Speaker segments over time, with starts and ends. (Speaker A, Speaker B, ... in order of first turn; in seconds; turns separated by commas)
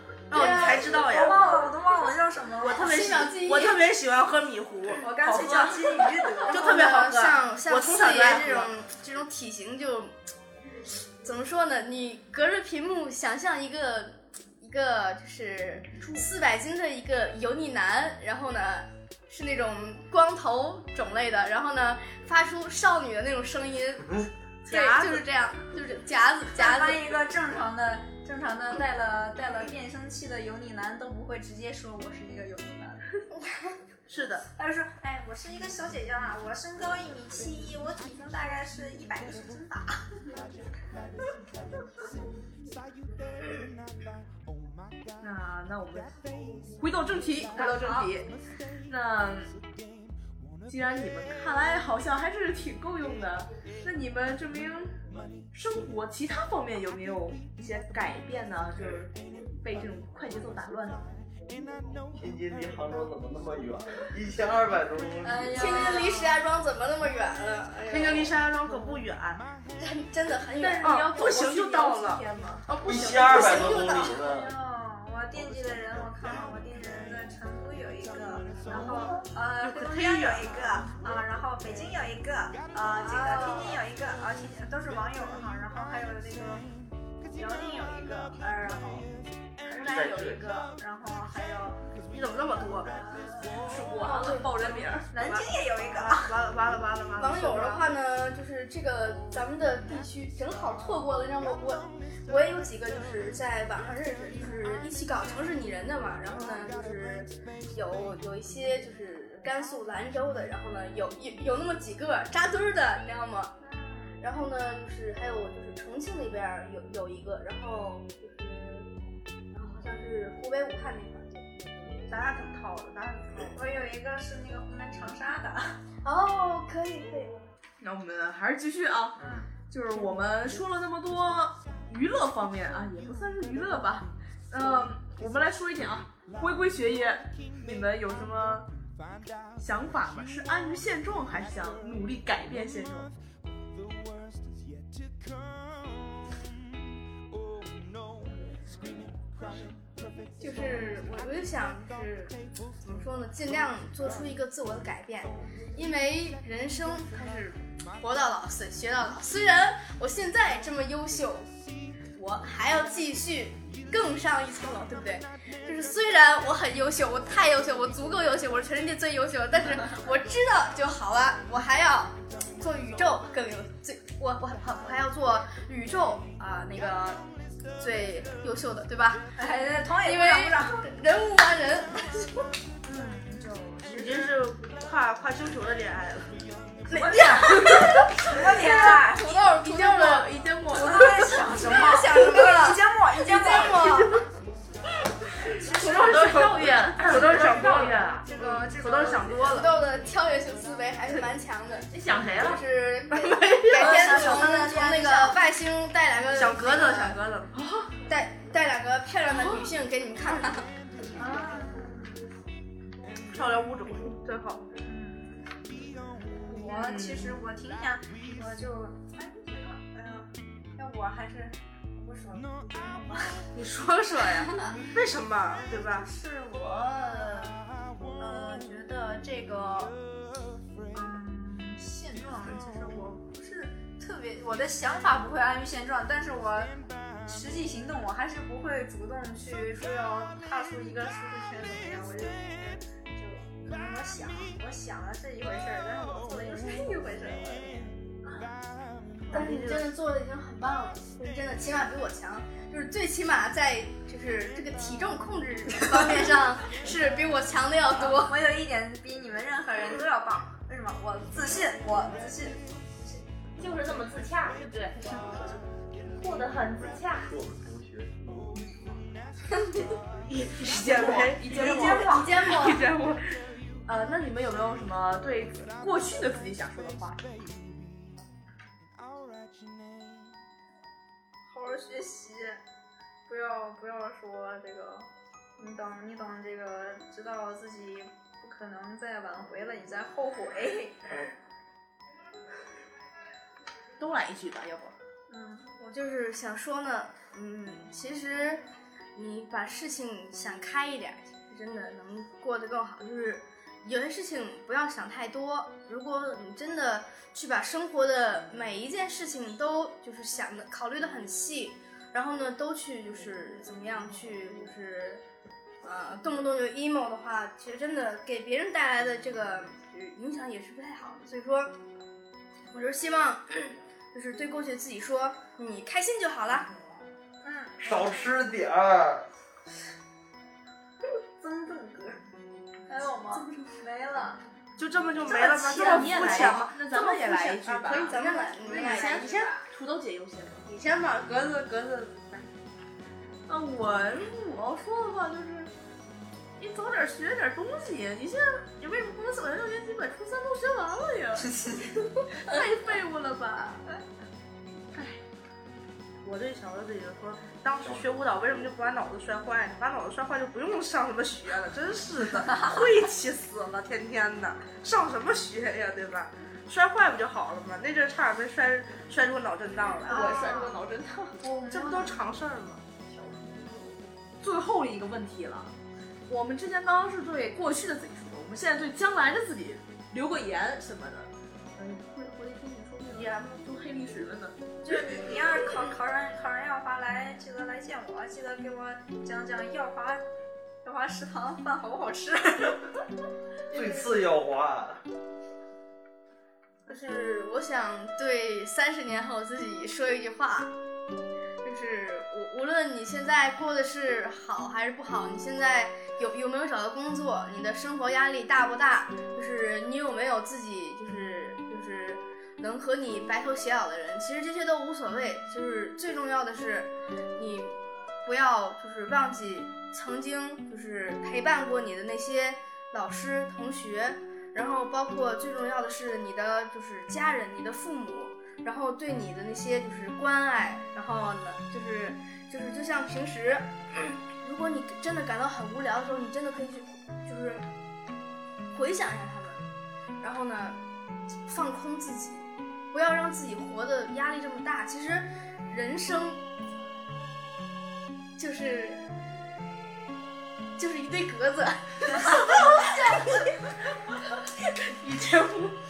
Speaker A: 0.3-1.5, Speaker B: 0.3-1.0, Speaker C: 0.3-2.9, Speaker A: 2.6-5.8, Speaker B: 2.7-3.8, Speaker C: 5.0-6.8, Speaker B: 6.5-10.1, Speaker A: 6.5-8.7, Speaker B: 11.2-27.1, Speaker A: 24.6-25.2, Speaker C: 26.5-33.0, Speaker A: 34.1-34.4, Speaker C: 34.5-40.1, Speaker D: 45.2-48.3, Speaker C: 47.5-48.2, Speaker D: 48.9-49.5, Speaker D: 50.6-55.0, Speaker D: 55.5-61.1, Speaker E: 62.1-65.8, Speaker C: 65.2-66.4, Speaker B: 65.5-68.3, Speaker A: 67.9-69.4, Speaker B: 69.8-71.1, Speaker D: 70.6-72.7, Speaker A: 70.8-73.4, Speaker E: 72.8-74.5, Speaker B: 72.9-74.2, Speaker C: 73.4-86.6, Speaker A: 79.6-80.5, Speaker B: 83.1-83.6, Speaker C: 87.3-89.1, Speaker C: 89.6-91.8, Speaker E: 89.7-90.5, Speaker A: 92.1-92.9, Speaker C: 92.9-93.6, Speaker D: 93.6-95.1, Speaker B: 94.0-94.8, Speaker C: 95.1-96.4, Speaker A: 95.2-97.9, Speaker B: 97.2-113.5, Speaker C: 113.6-114.2, Speaker B: 114.2-118.9, Speaker B: 119.5-122.3, Speaker A: 122.1-123.6, Speaker C: 123.5-125.8, Speaker B: 126.0-127.4, Speaker D: 127.8-129.2, Speaker D: 129.7-138.7, Speaker D: 139.6-143.1, Speaker B: 150.4-161.5, Speaker B: 162.2-177.2, Speaker B: 177.8-179.2, Speaker C: 179.3-180.9, Speaker B: 180.0-182.5, Speaker C: 182.8-184.2, Speaker A: 183.9-186.3, Speaker B: 186.9-190.3, Speaker D: 186.9-188.0, Speaker C: 187.0-189.4, Speaker D: 188.8-191.4, Speaker C: 190.7-194.1, Speaker B: 191.5-194.2, Speaker C: 195.4-196.7, Speaker F: 195.7-198.2, Speaker A: 196.0-199.7, Speaker C: 198.2-199.7, Speaker B: 199.4-207.2, Speaker F: 201.9-202.6, Speaker A: 203.1-204.5, Speaker C: 203.7-205.4, Speaker A: 206.3-207.6, Speaker D: 207.5-207.9, Speaker B: 208.1-210.7, Speaker C: 211.1-212.2, Speaker A: 213.3-214.7, Speaker C: 214.7-223.4, Speaker D: 216.8-217.3, Speaker A: 223.5-226.1, Speaker C: 224.6-224.9, Speaker C: 225.9-227.6, Speaker C: 228.2-230.0, Speaker C: 230.9-247.9, Speaker A: 249.3-249.9, Speaker B: 249.3-258.4, Speaker C: 257.9-262.6, Speaker F: 263.6-265.1, Speaker F: 266.2-267.3, Speaker E: 267.2-268.9, Speaker A: 270.3-273.2, Speaker D: 270.6-272.6, Speaker B: 271.5-272.9, Speaker C: 271.6-272.3, Speaker D: 273.9-277.4, Speaker C: 281.4-282.6, Speaker C: 283.3-291.3, Speaker D: 294.0-294.9, Speaker C: 295.3-295.7, Speaker B: 295.8-315.2, Speaker B: 315.8-321.7, Speaker B: 322.7-326.7, Speaker C: 327.4-327.8, Speaker E: 327.8-329.2, Speaker C: 331.4-332.2, Speaker C: 332.9-334.4, Speaker A: 334.8-339.5, Speaker C: 335.2-336.6, Speaker D: 335.6-340.6, Speaker B: 337.9-339.5, Speaker C: 338.6-339.4, Speaker A: 340.7-342.4, Speaker D: 343.5-345.7, Speaker D: 346.6-353.9, Speaker D: 354.9-355.2, Speaker A: 356.2-370.5, Speaker C: 370.1-370.8, Speaker D: 370.1-371.4, Speaker C: 371.4-372.2, Speaker A: 371.7-372.8, Speaker E: 373.1-373.6, Speaker D: 374.4-375.7, Speaker D: 376.3-384.6, Speaker A: 383.1-383.6, Speaker C: 384.8-390.2, Speaker C: 390.8-392.8, Speaker E: 393.7-395.0, Speaker B: 396.9-400.7, Speaker B: 401.6-437.6, Speaker B: 438.7-439.6, Speaker B: 440.2-440.8, Speaker B: 441.4-446.4, Speaker B: 448.4-449.0, Speaker B: 450.8-453.6, Speaker A: 455.0-455.7